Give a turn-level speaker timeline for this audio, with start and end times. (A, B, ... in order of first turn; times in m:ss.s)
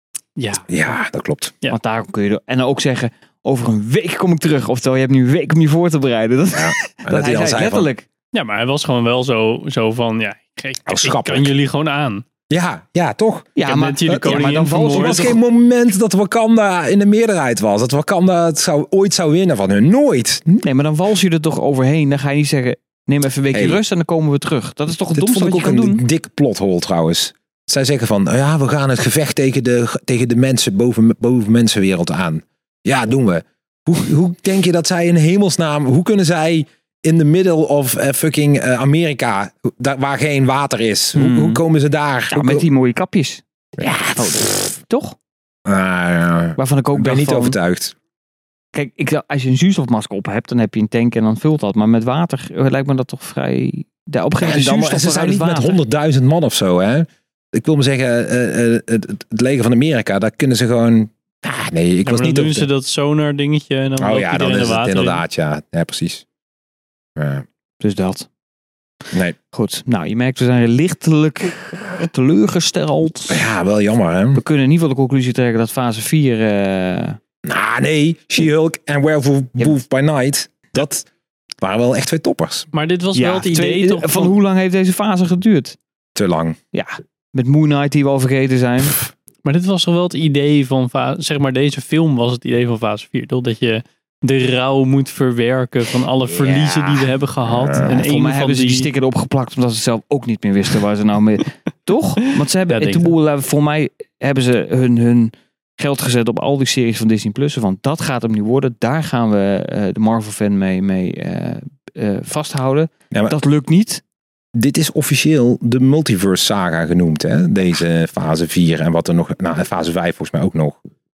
0:00.4-0:00.7 A
0:00.7-0:01.5 B
0:01.7-0:08.1 C
0:06.5-0:07.9 B
0:08.3-0:12.2 A
0:10.9-0:11.5 B
0:12.5-0:13.5 B
0:13.6-0:15.4 C
0:13.6-0:15.4 A
0:14.1-0:20.6 B
0:20.6-0:26.0 C
0:23.5-0:23.8 B
0:25.1-0:42.7 B
0:41.2-0:41.6 C
0:42.3-0:43.4 C
0:43.8-0:44.8 B
0:44.2-0:45.2 C
0:45.6-0:48.0 B
0:46.6-0:47.6 C
0:48.7-0:55.8 C
0:54.4-1:02.7 B
1:02.0-1:05.2 A
1:04.0-1:06.2 B
1:07.2-1:07.4 B
1:07.8-1:08.3 C
1:09.5-1:13.5 C
1:13.3-1:14.4 B
1:14.4-1:17.2 C
1:17.4-1:21.1 B
1:21.6-1:22.7 B
1:22.7-1:24.4 A
1:23.1-1:25.8 C
1:26.2-1:26.6 B
1:26.7-1:29.0 C
1:29.4-1:38.9 A
1:36.3-1:37.1 C
1:37.4-1:37.9 B
1:37.8-1:54.0 C
1:42.7-1:43.1 A
1:54.6-2:00.8 B